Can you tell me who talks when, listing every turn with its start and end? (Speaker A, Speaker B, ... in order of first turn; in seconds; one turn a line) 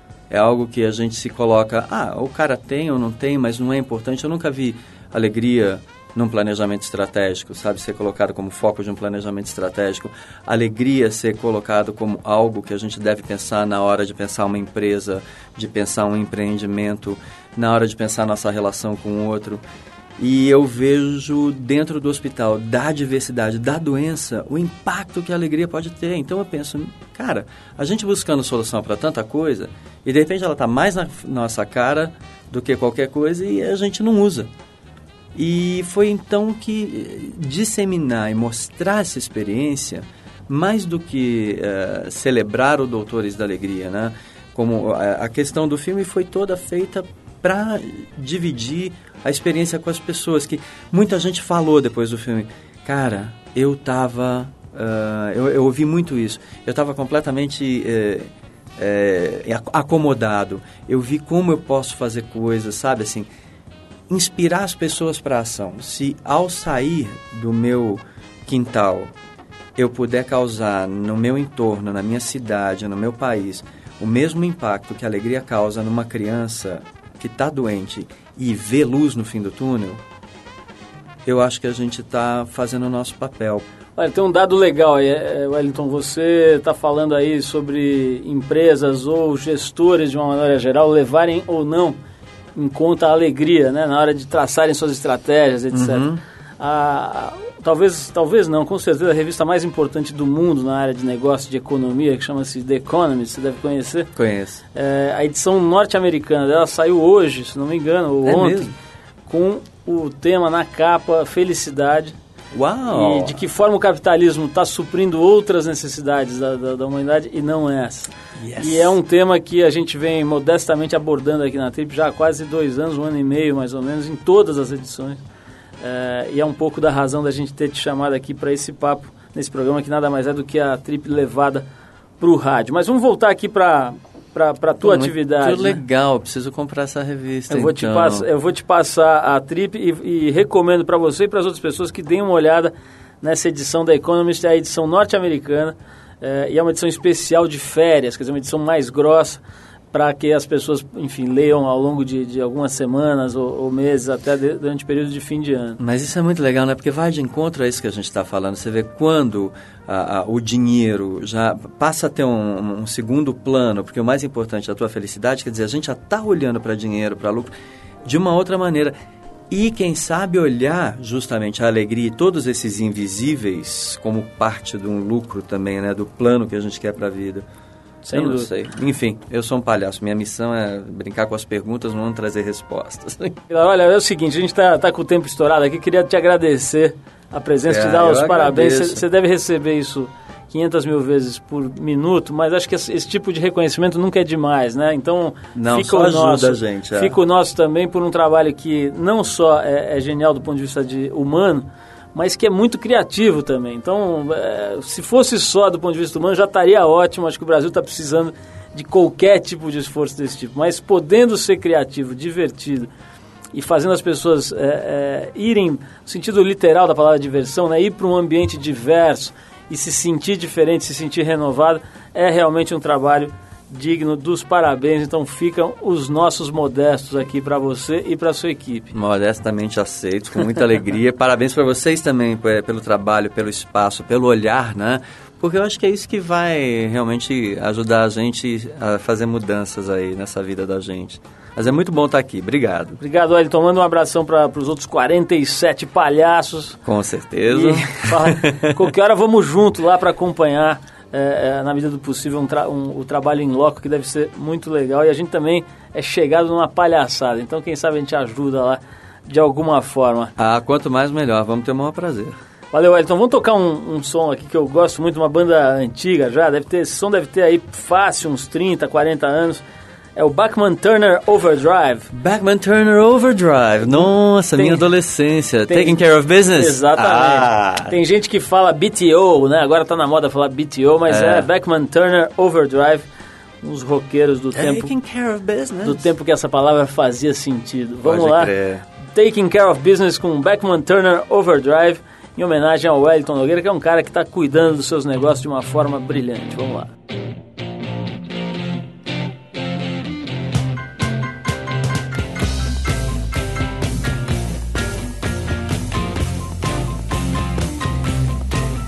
Speaker A: 0.3-19.6
Speaker A: 20.2-34.5
Speaker A: 35.4-63.3
Speaker A: 64.1-69.1
Speaker A: 69.8-80.0
Speaker A: 81.2-83.7
Speaker B: 84.0-92.0
Speaker B: 92.5-96.0
Speaker A: 95.7-96.2
Speaker B: 96.6-104.1
Speaker A: 104.2-104.6
Speaker B: 104.8-108.7
Speaker A: 108.2-108.8
Speaker B: 109.3-112.2
Speaker A: 112.5-113.4
Speaker B: 112.9-125.2
Speaker A: 118.4-119.0
Speaker B: 125.8-131.7
Speaker B: 132.2-135.8
Speaker A: 134.8-138.3
Speaker B: 137.5-155.8
Speaker A: 155.8-167.5
Speaker A: 168.1-168.9
Speaker A: 169.5-177.5
Speaker B: 178.0-178.5
Speaker A: 178.1-183.4
Speaker B: 183.5-212.9
Speaker A: 187.7-189.0
Speaker A: 195.6-197.2
Speaker B: 213.5-228.9
Speaker A: 228.9-243.0
Speaker B: 243.0-246.8
Speaker A: 246.8-248.9
Speaker B: 247.5-260.3
Speaker A: 260.4-262.4
Speaker B: 262.7-269.6
Speaker B: 270.2-272.1
Speaker A: 272.1-278.0
Speaker B: 274.5-274.9
Speaker B: 275.7-283.1
Speaker A: 281.1-281.5
Speaker B: 283.6-284.9
Speaker A: 284.5-286.1
Speaker B: 285.8-288.5
Speaker A: 288.0-288.9
Speaker B: 289.1-296.9